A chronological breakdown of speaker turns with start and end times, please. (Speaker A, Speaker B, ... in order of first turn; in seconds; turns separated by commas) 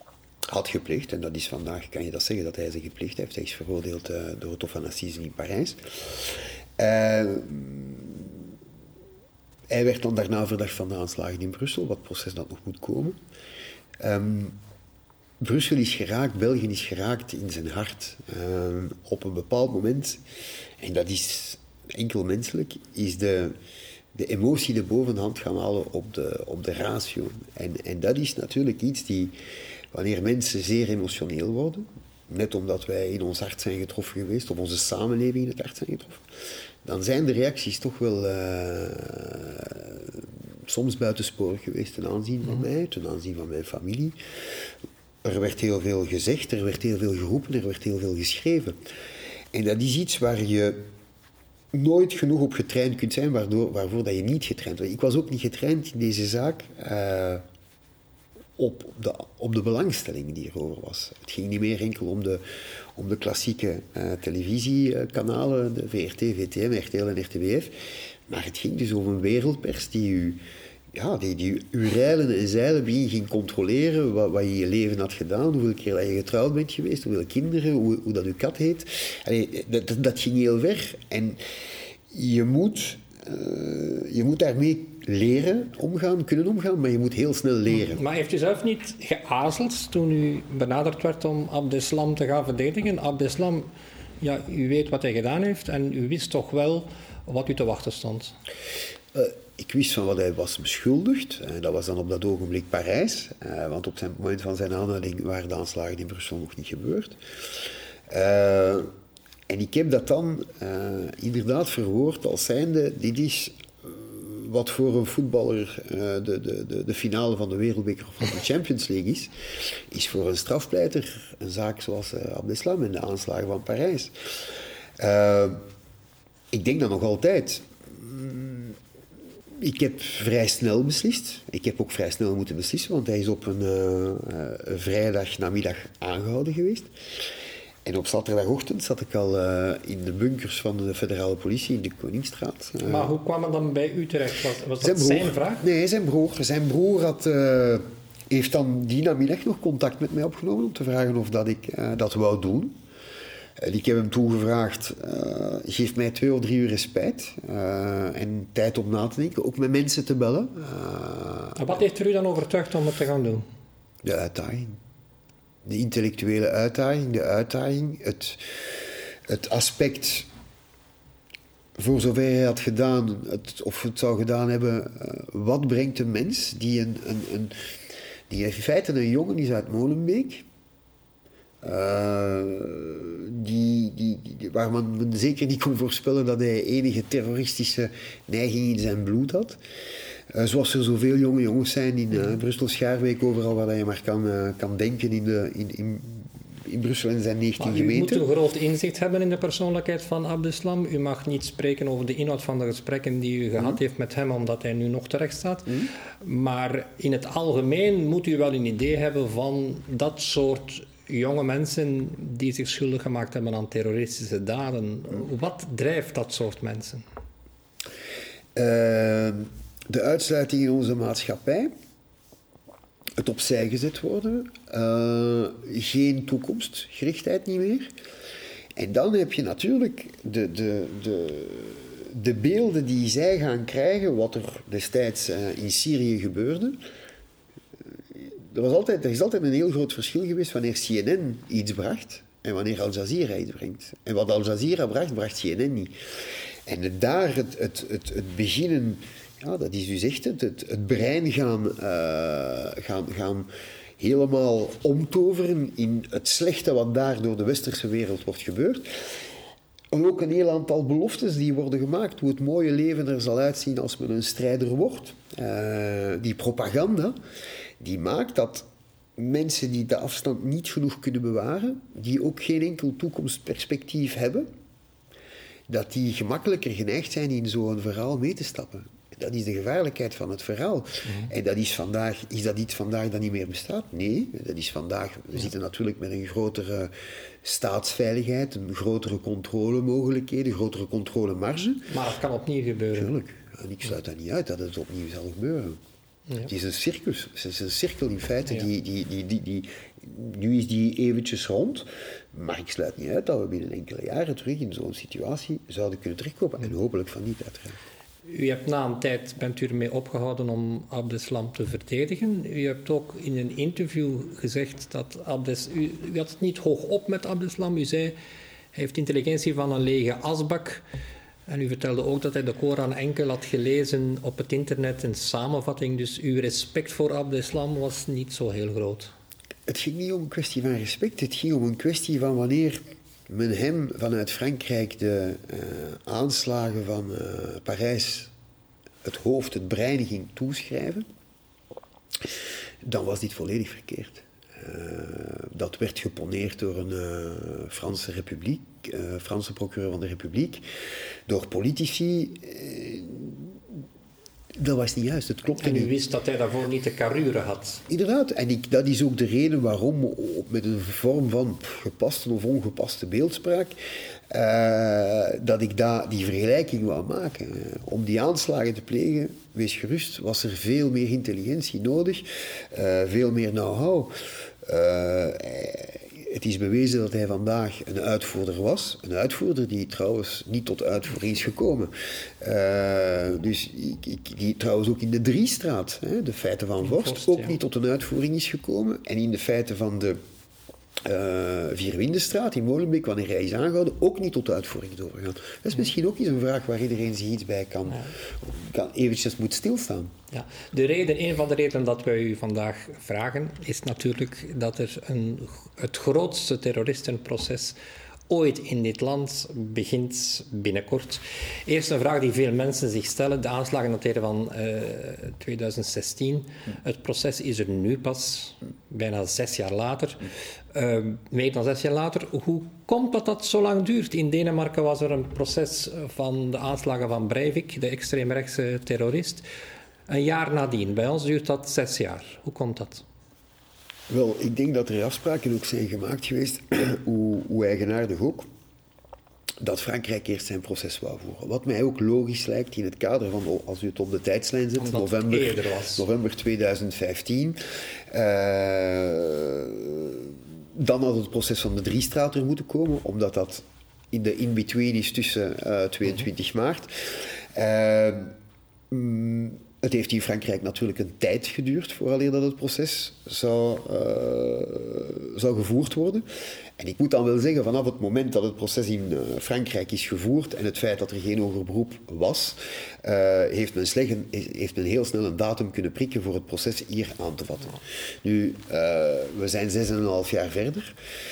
Speaker A: 0.5-8.5, Speaker A: 9.7-13.2, Speaker A: 14.0-14.6, Speaker A: 15.4-20.2, Speaker A: 20.8-23.5, Speaker A: 24.1-29.3, Speaker A: 29.9-36.2, Speaker A: 36.8-44.1, Speaker A: 45.2-48.8, Speaker A: 49.5-50.8, Speaker A: 51.7-57.4, Speaker A: 58.6-62.4, Speaker A: 63.0-67.7, Speaker A: 68.3-70.4, Speaker A: 70.9-81.4, Speaker A: 82.1-88.0, Speaker B: 87.7-98.3, Speaker A: 99.1-107.2, Speaker A: 108.1-108.9, Speaker A: 109.5-119.3, Speaker A: 119.9-124.1, Speaker A: 125.0-125.6, Speaker A: 126.5-128.8, Speaker A: 129.6-136.9, Speaker A: 137.8-143.1, Speaker B: 142.8-145.6, Speaker A: 144.8-152.7, Speaker A: 153.6-161.7, Speaker B: 161.6-163.4, Speaker A: 164.0-164.8, Speaker A: 165.6-168.4, Speaker A: 169.3-170.3, Speaker A: 171.8-177.5, Speaker A: 178.3-180.4, Speaker A: 181.6-189.6, Speaker A: 190.3-198.2, Speaker B: 197.6-217.0, Speaker A: 218.6-221.7, Speaker A: 223.2-227.9, Speaker A: 228.8-236.8, Speaker A: 238.1-245.9, Speaker A: 246.7-258.9, Speaker A: 259.9-267.1, Speaker A: 267.8-274.5, Speaker A: 275.7-286.9, Speaker A: 287.4-291.9, Speaker B: 291.9-293.1, Speaker A: 292.9-295.8, Speaker A: 296.4-307.8, Speaker B: 308.2-318.1, Speaker B: 318.7-320.8, Speaker B: 321.5-329.1, Speaker A: 329.7-338.3, Speaker A: 339.0-341.0, Speaker A: 342.2-350.6, Speaker A: 351.3-353.6, Speaker A: 354.6-355.9, Speaker B: 355.6-357.8, Speaker A: 357.9-363.7, Speaker A: 364.3-374.1, Speaker A: 374.6-390.2, Speaker B: 386.8-387.6, Speaker A: 391.0-400.1, Speaker B: 400.3-407.8, Speaker B: 408.3-420.2, Speaker B: 420.7-429.4, Speaker B: 430.1-433.0, Speaker A: 434.1-438.4, Speaker A: 439.6-447.6, Speaker B: 444.8-446.0, Speaker A: 448.1-458.3, Speaker A: 458.9-466.2, Speaker A: 466.8-480.9